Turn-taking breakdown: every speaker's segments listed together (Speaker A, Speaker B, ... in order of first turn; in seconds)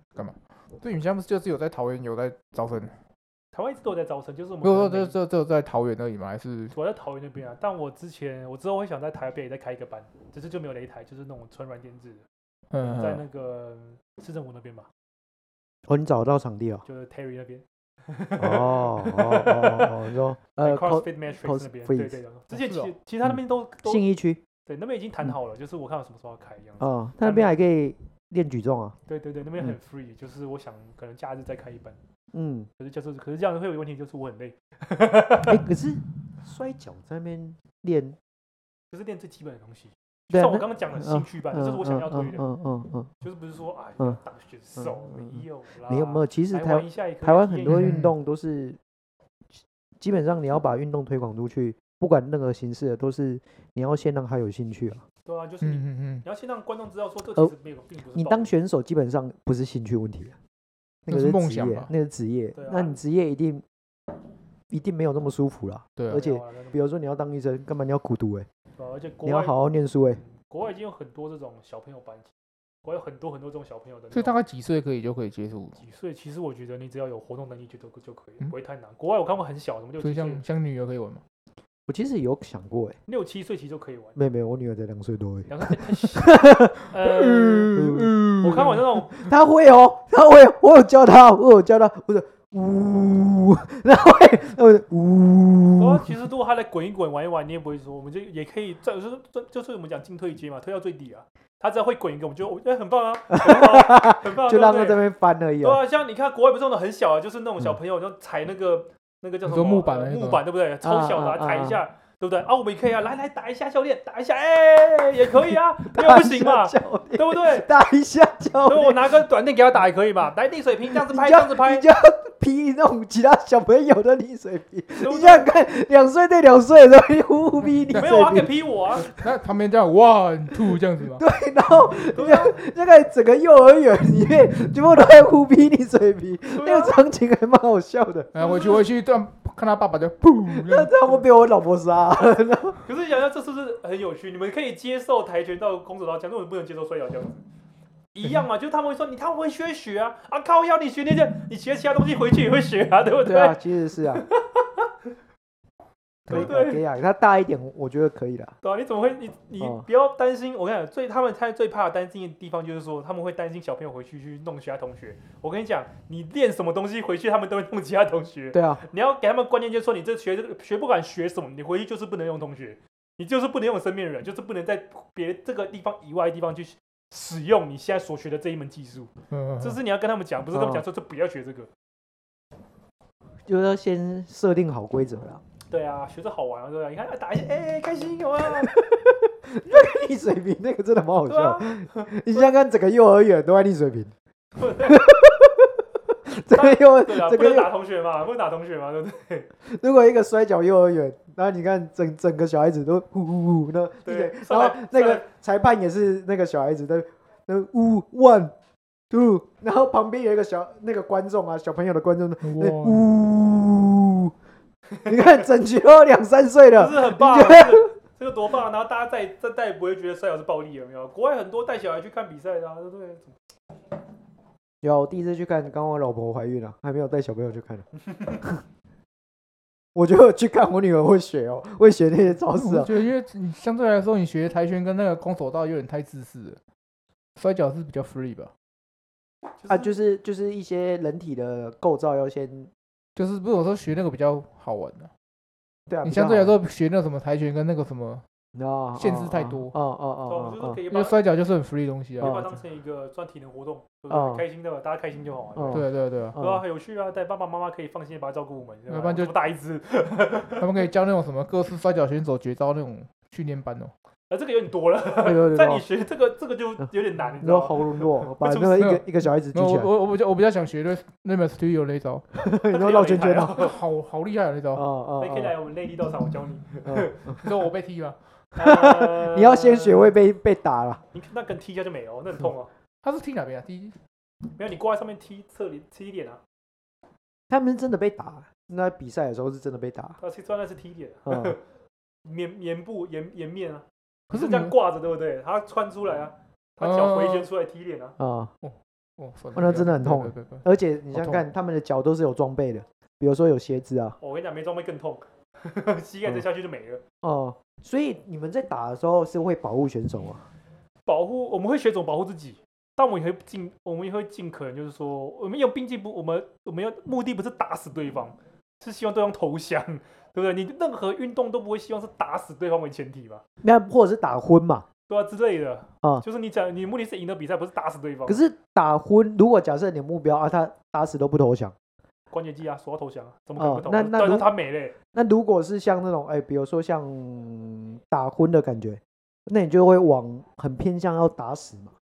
Speaker A: 0.2-3.0, 4.6-6.7, 12.7-13.2, 47.7-48.1, 55.6-56.2, 61.1-61.9, 66.0-66.3, 74.1-75.8, 80.0-81.2, 87.0-89.1, 109.5-110.4, 129.0-131.2, 138.3-140.9, 179.3-179.8, 212.4-213.0, 232.5-236.6, 237.4-238.5, 243.2-245.1, 246.0-248.2, 249.0-249.7, 250.9-252.4, 255.7-256.4, 258.9-259.3, 260.6-263.9, 268.8-272.2, 273.5-274.8, 277.4-278.2, 283.0-284.0, 294.3-294.7, 296.8-297.5, 298.6-301.4
Speaker B: 3.5-5.2, 6.7-12.2, 12.8-14.9, 16.9-19.9, 20.6-24.0, 24.7-27.5, 29.1-32.0, 32.8-35.6, 38.9-42.4, 43.2-47.9, 55.3-58.5, 62.5-63.0, 66.1-66.8, 68.8-69.5, 70.2-72.3, 72.8-74.3, 75.8-80.4, 83.1-84.2, 85.5-87.8, 88.4-89.2, 95.8-105.0, 105.6-117.7, 118.7-121.9, 125.0-125.5, 127.9-129.1, 132.1-132.6, 136.5-137.0, 138.4-138.8, 142.8-147.4, 148.1-154.9, 156.3-156.8, 158.6-181.7, 185.7-188.7, 191.3-192.5, 194.6-195.1, 196.5-199.5, 204.0-205.3, 216.8-223.4, 239.6-239.9, 250.3-251.2, 252.2-255.8, 256.4-260.7, 264.3-268.7, 272.7-273.8, 275.2-277.5, 278.6-280.1, 281.1-282.7, 284.6-286.4, 290.2-291.6, 292.2-298.1, 304.2-307.0, 311.1-323.4, 325.1-328.4, 332.3-334.9
Speaker C: 15.9-16.8, 18.4-23.3, 23.9-24.4, 26.8-29.0, 32.3-32.7, 35.4-38.2, 40.3-43.1, 44.8-48.8, 50.0-55.0, 58.1-60.4, 61.1-63.6, 64.7-68.5, 69.2-70.2, 81.9-83.0, 84.2-86.9, 87.7-88.2, 89.1-96.2, 103.3-105.8, 110.8-111.8, 115.5-119.1, 120.9-128.5, 131.2-138.3, 140.5-142.8, 153.2-154.2, 156.3-158.6, 159.6-159.8, 168.5-168.8, 180.5-180.8, 183.4-185.4, 188.6-194.1, 194.8-197.7, 199.6-208.5, 209.1-214.3, 215.1-217.9, 224.8-227.9, 229.9-232.9, 239.7-242.7, 245.9-246.6, 248.6-250.8, 252.2-252.5, 254.1-254.4, 255.6-256.6, 265.1-265.8, 267.4-269.9, 272.4-273.6, 274.7-275.5, 276.9-277.4, 278.6-281.0, 287.5-290.2, 291.3-291.6, 298.2-298.5, 299.6-304.2, 307.2-310.5, 323.6-324.9, 328.3-331.8, 333.6-334.5, 335.1-341.9